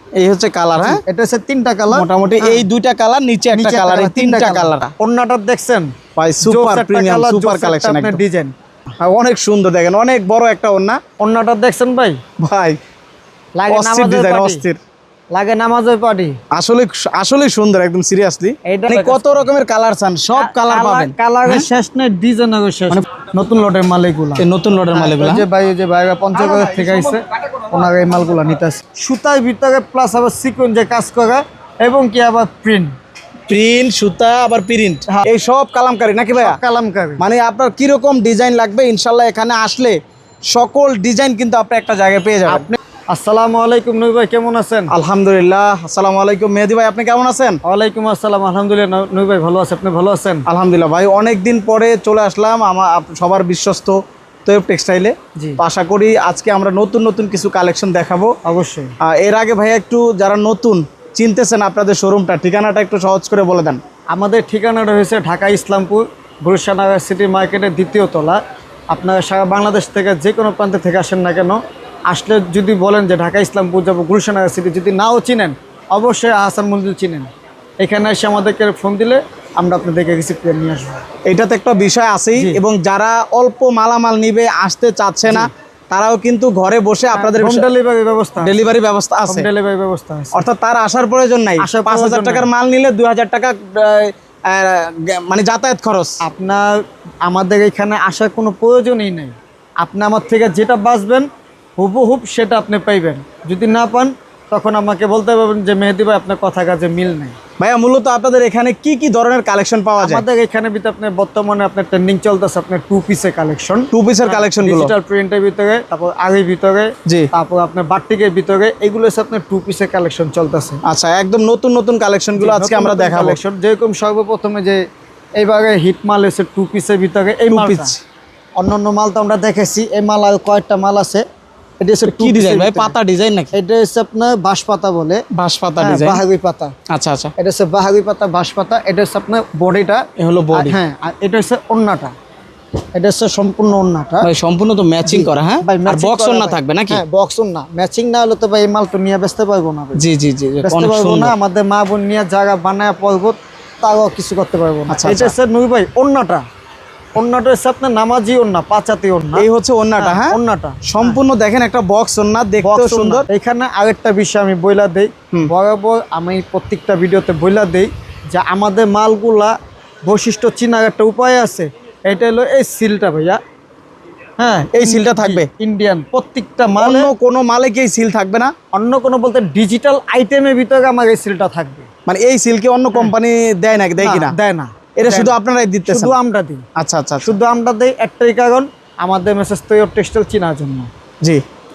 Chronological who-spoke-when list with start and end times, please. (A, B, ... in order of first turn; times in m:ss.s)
0:00.2-0:01.0 A
0:00.8-0:02.6 B
0:01.9-0:04.9 A
0:03.5-0:08.5 B
0:06.2-0:08.2 A
0:09.0-0:11.0 A
0:11.2-0:12.2 B
0:12.4-0:12.8 A
0:13.6-0:14.6 B
0:13.7-0:14.8 A
0:15.3-0:16.4 B
0:16.5-0:21.7 A
0:18.6-0:19.5 B
0:20.3-0:32.9 B
0:24.4-0:25.4 A
0:33.5-0:36.6 A
0:36.3-0:37.2 B
0:37.2-0:40.0 A
0:40.5-0:42.6 A
0:42.5-0:44.9 B
0:44.9-0:47.6 A
0:47.6-0:50.4 B
0:50.4-0:58.3 A
0:58.4-0:58.9 B
0:59.0-1:03.8 A
1:04.1-1:17.3 B
1:17.8-1:21.0 B
1:21.2-1:27.7 A
1:22.3-1:22.6 B
1:27.1-1:28.6 B
1:28.4-1:29.5 A
1:29.2-1:30.4 B
1:30.3-1:36.2 A
1:31.6-1:32.5 B
1:36.2-1:47.4 B
1:47.6-1:50.2 A
1:50.0-2:00.8 B
1:53.9-1:54.9 A
2:00.8-2:03.4 A
2:02.4-2:04.8 B
2:05.4-2:07.9 B
2:07.5-2:08.0 A
2:08.6-2:11.2 B
2:11.8-2:13.0 B
2:12.0-2:13.5 A
2:13.5-2:15.2 B
2:15.3-2:16.2 A
2:15.8-2:16.7 B
2:16.9-2:17.3 A
2:17.4-2:22.1 B
2:20.2-2:20.8 A
2:22.9-2:24.3 B
2:24.2-2:27.0 A
2:25.0-2:30.0 B
2:29.9-2:31.3 A
2:30.6-2:36.4 B
2:34.9-2:35.3 A
2:37.1-2:39.5 B
2:39.4-2:43.2 A
2:40.0-2:41.2 B
2:42.6-2:53.4 B
2:54.4-2:57.1 B
2:54.7-2:55.5 A
2:56.8-2:58.5 A
2:58.7-3:01.9 B
3:02.0-3:04.4 A
3:04.0-3:06.6 B
3:05.0-3:06.1 A
3:06.8-3:07.4 A
3:07.2-3:10.9 B